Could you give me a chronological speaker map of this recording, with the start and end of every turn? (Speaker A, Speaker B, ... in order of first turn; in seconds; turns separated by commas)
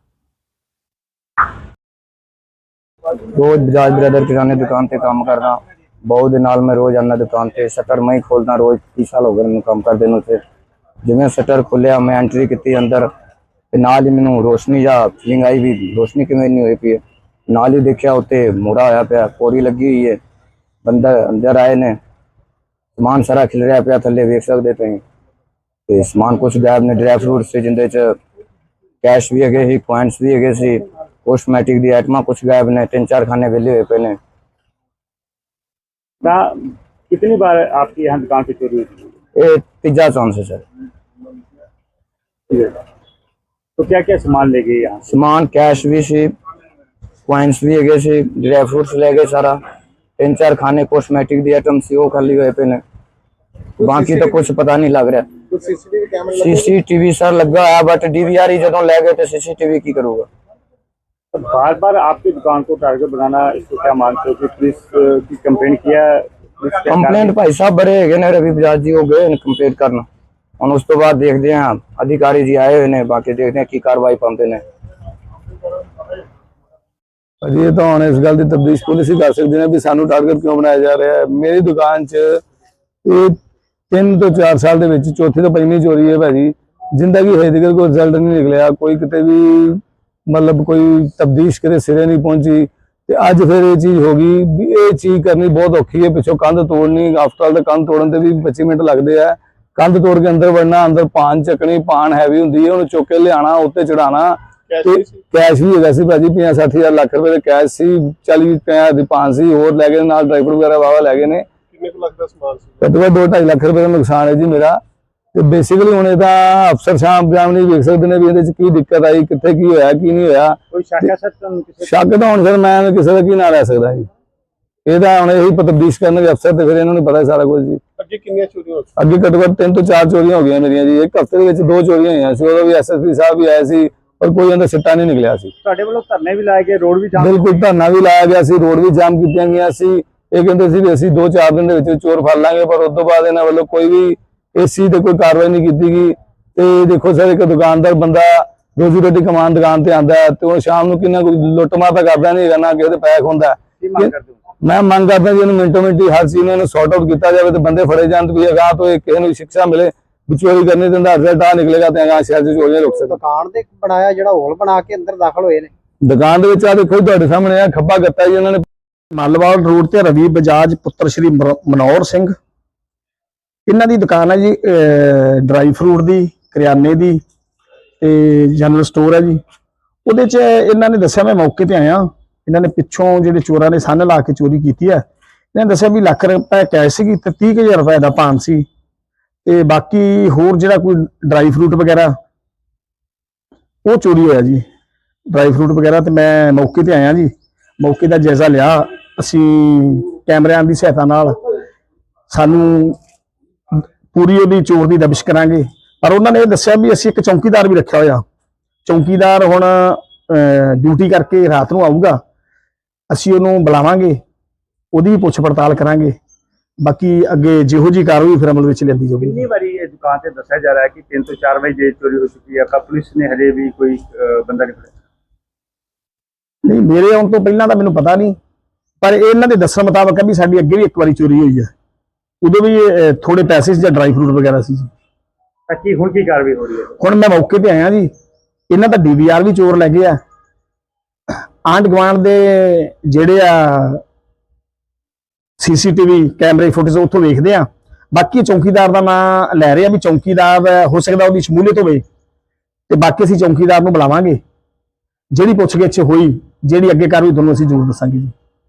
Speaker A: 3.3-10.4, Speaker A: 11.0-13.1, Speaker A: 13.7-20.2, Speaker A: 20.8-22.0, Speaker A: 23.0-25.0, Speaker A: 25.9-28.1, Speaker A: 29.0-34.2, Speaker B: 36.2-36.5, Speaker B: 37.1-39.1, Speaker A: 39.4-40.6, Speaker B: 42.5-42.8, Speaker B: 43.8-45.1, Speaker A: 45.1-46.3, Speaker A: 47.3-49.6, Speaker A: 50.2-52.8, Speaker A: 53.8-55.3, Speaker C: 55.5-56.7, Speaker A: 56.4-60.3, Speaker B: 61.3-67.4, Speaker A: 66.8-70.0, Speaker A: 70.6-74.6, Speaker D: 77.4-82.4, Speaker D: 83.0-83.3, Speaker D: 83.9-111.5, Speaker C: 104.7-105.2, Speaker C: 111.7-112.8, Speaker D: 112.8-114.8, Speaker D: 115.3-120.6, Speaker B: 120.7-122.0, Speaker D: 121.8-124.1, Speaker D: 124.8-127.8, Speaker C: 128.0-128.9, Speaker D: 129.0-135.5, Speaker B: 135.6-137.7, Speaker D: 137.2-154.1, Speaker B: 153.8-154.4, Speaker D: 154.6-163.2, Speaker E: 162.7-165.7, Speaker D: 166.0-168.6, Speaker F: 169.1-172.3, Speaker F: 173.7-177.2, Speaker F: 178.0-179.4, Speaker F: 180.0-188.7, Speaker F: 189.4-192.1, Speaker F: 193.8-194.6, Speaker F: 195.3-201.3, Speaker F: 202.3-203.0, Speaker F: 204.1-208.2, Speaker F: 208.8-212.2, Speaker F: 213.1-214.2, Speaker F: 214.9-216.2, Speaker F: 216.8-219.4, Speaker B: 219.2-224.9, Speaker F: 226.6-228.4, Speaker F: 229.0-231.7, Speaker F: 232.4-234.9, Speaker B: 235.7-236.9, Speaker F: 237.0-238.1, Speaker F: 238.7-240.2, Speaker F: 241.6-244.0, Speaker F: 245.6-252.0, Speaker F: 252.9-254.4, Speaker F: 255.3-258.3